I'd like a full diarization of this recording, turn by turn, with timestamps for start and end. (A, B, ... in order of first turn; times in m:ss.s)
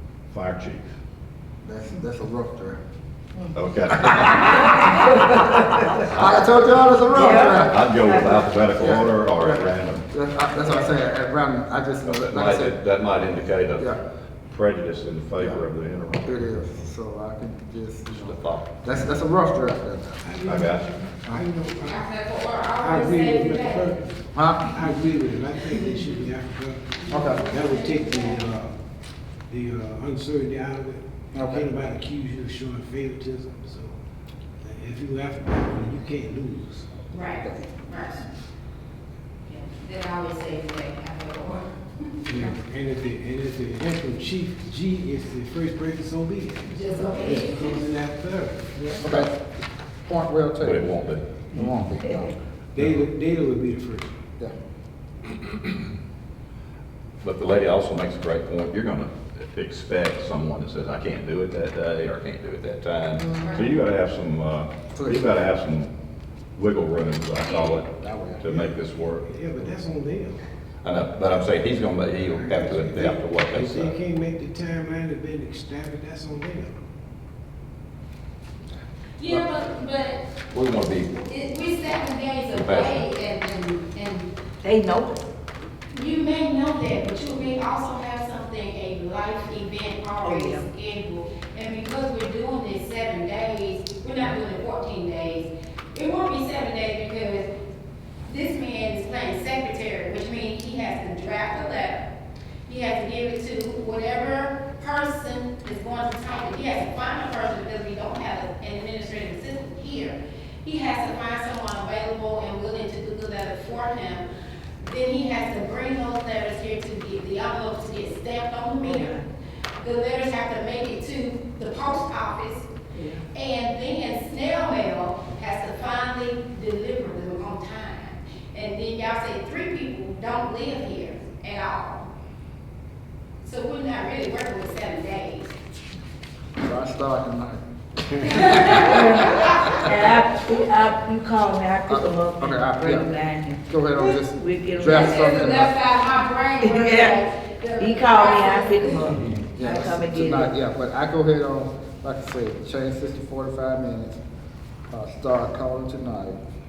0:00.3-0:00.8 A
0:01.6-0:02.8 B
0:03.5-0:04.9 A
0:04.0-0:07.8 B
0:05.9-0:06.4 A
0:07.1-0:07.4 C
0:07.4-0:10.1 A
0:08.8-0:12.8 B
0:12.0-0:13.9 A
0:14.5-0:16.5 A
0:15.4-0:15.6 B
0:16.2-0:20.5 B
0:18.1-0:18.8 A
0:20.4-0:21.0 A
0:21.4-0:22.0 D
0:21.8-0:24.0 E
0:22.8-0:23.9 D
0:24.3-0:24.7 B
0:24.7-0:27.0 D
0:25.8-0:26.1 E
0:27.0-0:28.5 E
0:27.1-0:27.4 B
0:27.5-0:28.7 D
0:29.5-0:33.9 D
0:31.3-0:31.7 B
0:34.6-0:36.9 D
0:37.1-0:38.2 E
0:39.5-0:41.7 E
0:42.2-0:48.8 D
0:46.6-0:47.8 E
0:49.0-0:49.4 B
0:49.0-0:49.3 A
0:50.0-0:51.0 B
0:50.6-0:51.3 A
0:51.5-0:52.3 B
0:52.8-0:54.1 D
0:57.2-1:05.9 A
1:03.2-1:03.6 B
1:03.4-1:03.6 E
1:04.9-1:05.3 B
1:06.6-1:07.9 A
1:08.0-1:08.4 B
1:08.4-1:09.3 A
1:09.3-1:10.4 D
1:10.8-1:13.9 A
1:12.4-1:16.7 D
1:19.2-1:20.2 E
1:20.5-1:21.2 A
1:21.2-1:24.3 E
1:22.5-1:23.0 A
1:24.6-1:25.2 C
1:25.9-1:37.5 E
1:30.2-1:30.6 C
1:38.2-1:42.1 E
1:42.7-1:54.2 E
1:54.8-1:59.2 E
1:58.9-1:59.2 C
1:59.8-2:02.7 E
2:03.3-2:12.1 E
2:13.4-2:15.5 E
2:16.6-2:17.6 B
2:18.1-2:20.0 B
2:18.2-2:19.9 E
2:18.8-2:19.3 C
2:19.8-2:23.6 C
2:21.9-2:23.1 B
2:23.7-2:25.7 B
2:23.9-2:24.2 E
2:24.3-2:25.2 C
2:24.8-2:29.8 E
2:26.6-2:27.2 C
2:27.8-2:30.5 C
2:29.5-2:34.2 B
2:34.9-2:36.4 B